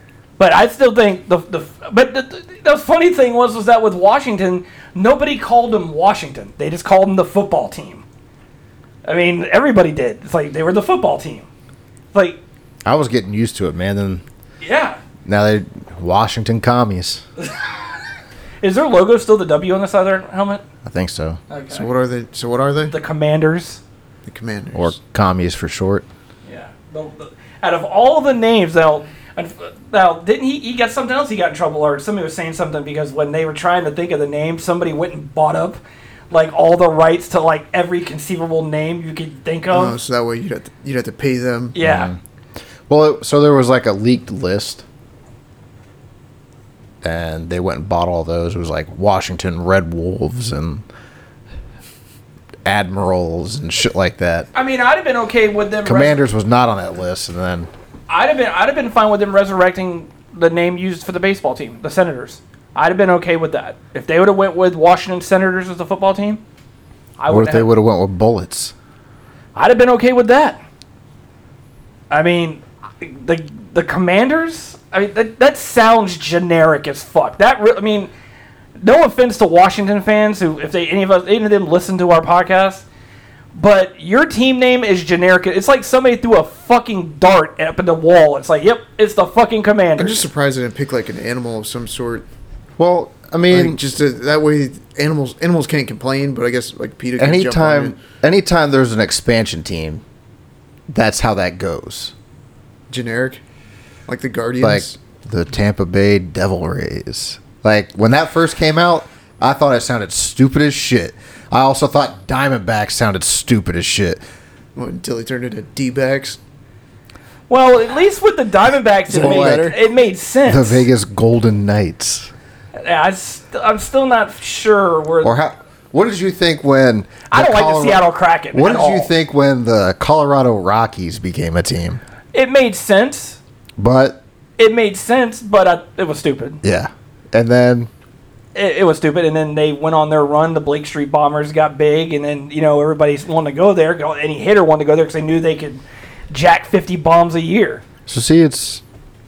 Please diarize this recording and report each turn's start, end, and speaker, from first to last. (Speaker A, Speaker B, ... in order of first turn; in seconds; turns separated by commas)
Speaker A: 0.4-8.0, Speaker A: 9.0-11.5, Speaker A: 12.1-12.4, Speaker B: 12.8-14.2, Speaker A: 14.6-15.0, Speaker B: 15.2-17.2, Speaker A: 18.6-20.6, Speaker B: 20.8-21.4, Speaker A: 21.5-21.9, Speaker C: 21.7-22.9, Speaker A: 22.9-23.8, Speaker C: 24.2-25.0, Speaker B: 24.7-26.0, Speaker A: 26.4-40.0, Speaker C: 39.7-41.8, Speaker A: 41.7-42.1, Speaker B: 41.8-42.2, Speaker B: 42.9-44.8, Speaker B: 47.0-50.8, Speaker B: 52.6-54.5, Speaker A: 54.5-56.2, Speaker B: 55.8-57.7, Speaker A: 58.1-66.4, Speaker A: 67.2-67.7, Speaker B: 67.3-68.7, Speaker A: 69.5-70.6, Speaker A: 72.1-78.1, Speaker A: 78.8-82.8, Speaker A: 83.5-90.3, Speaker C: 90.0-92.3, Speaker B: 92.8-93.8, Speaker C: 93.5-98.0, Speaker B: 97.2-100.0, Speaker B: 100.9-102.1, Speaker C: 102.9-103.4, Speaker C: 104.1-105.0, Speaker B: 104.6-114.2, Speaker C: 114.8-116.4, Speaker A: 117.5-120.8, Speaker C: 119.1-119.8, Speaker B: 119.1-119.7, Speaker B: 120.5-122.3, Speaker A: 122.8-125.3, Speaker B: 125.2-132.0, Speaker A: 127.3-129.1, Speaker A: 132.3-133.4, Speaker B: 133.8-134.2, Speaker A: 134.6-136.6, Speaker B: 136.6-137.9, Speaker A: 138.5-147.8, Speaker B: 148.1-148.8